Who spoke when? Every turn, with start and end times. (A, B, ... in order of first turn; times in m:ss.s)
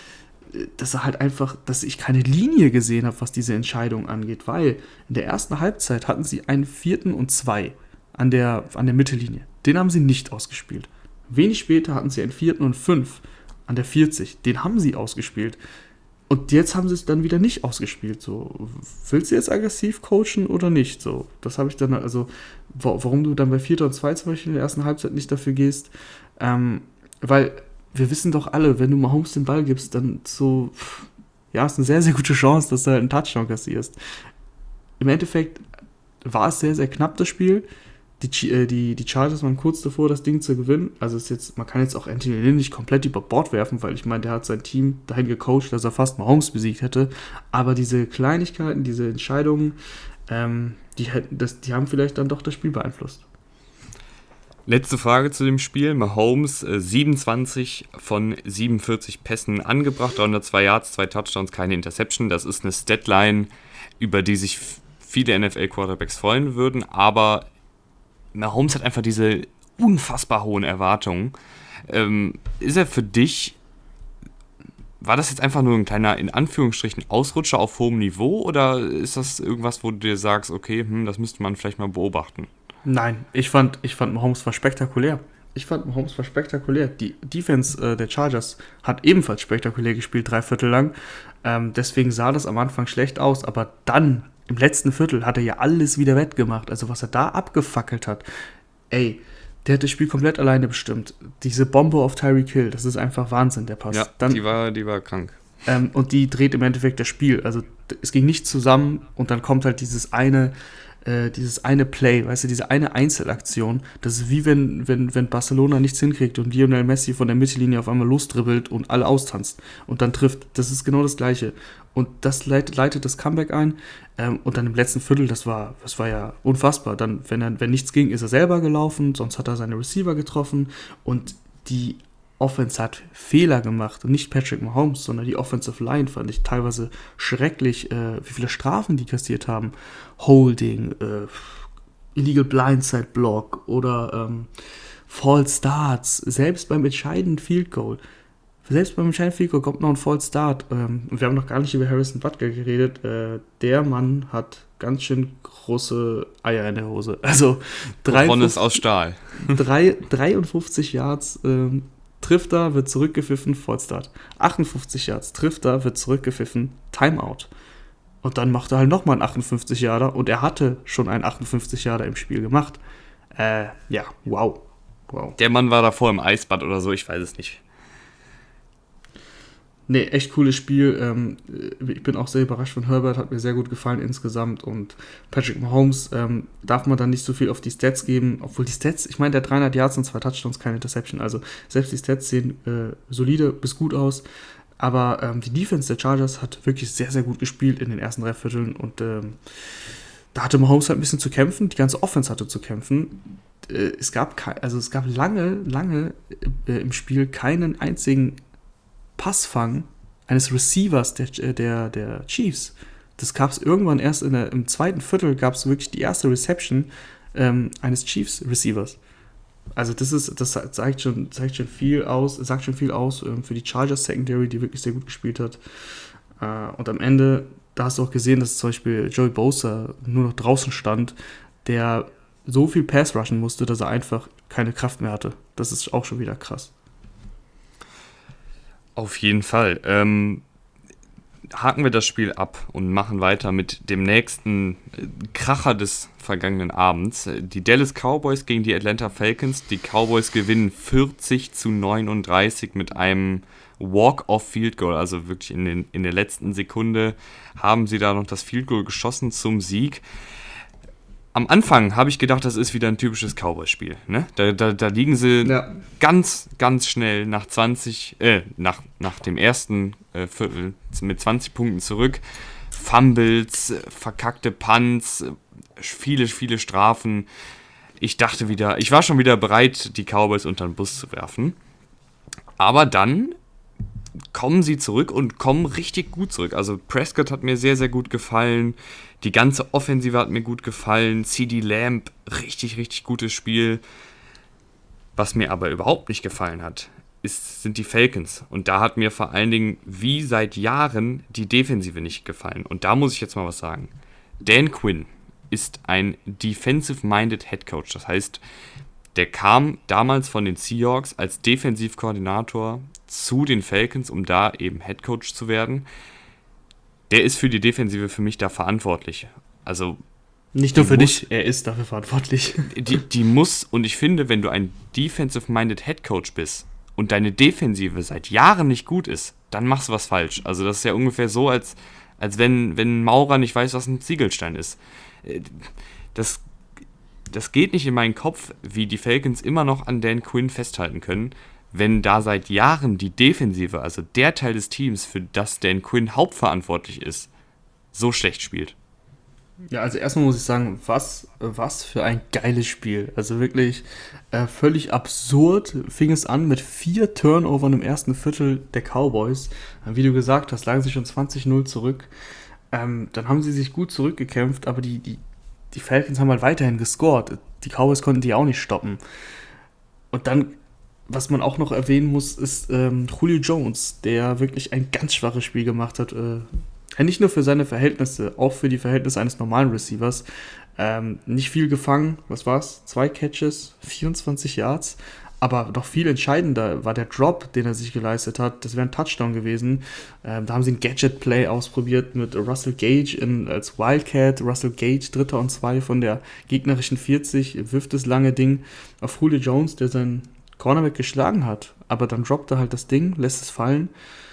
0:00.5-0:15.6 A
0:16.3-0:33.9 A
0:35.0-0:35.6 A
0:36.2-0:37.6 A
0:38.2-0:49.8 A
0:50.3-0:53.2 A
0:54.6-1:07.5 B
1:08.3-1:11.3 B
1:11.9-1:13.6 B
1:15.0-1:22.5 B
1:22.8-1:38.2 A
1:38.9-1:44.4 A
1:43.9-1:45.4 B
1:45.6-2:24.5 A
2:25.1-2:28.0 A
2:28.6-2:38.8 A
2:38.1-2:39.6 B
2:39.4-2:47.5 A
2:48.2-2:52.8 A
2:53.4-2:55.4 A
2:55.4-2:57.6 B
2:59.9-3:14.2 A
3:14.8-3:19.4 A
3:20.3-3:28.4 A
3:29.2-3:39.0 A
3:39.8-3:45.6 A
3:46.4-3:56.7 A
3:59.0-4:00.4 B
4:01.5-4:20.0 B
4:21.3-4:37.3 B
4:25.4-4:25.8 A
4:38.0-4:41.6 B
4:42.6-4:43.4 B
4:44.3-4:53.8 B
4:55.2-5:08.4 B
5:09.1-5:15.8 B
5:17.1-5:20.0 B
5:20.5-5:23.0 A
5:20.7-5:21.2 B
5:22.6-5:36.4 B
5:37.3-5:47.3 B
5:47.9-5:48.7 B
5:49.7-6:02.1 A
6:02.7-6:09.0 A
6:10.1-6:20.2 A
6:20.8-6:43.9 A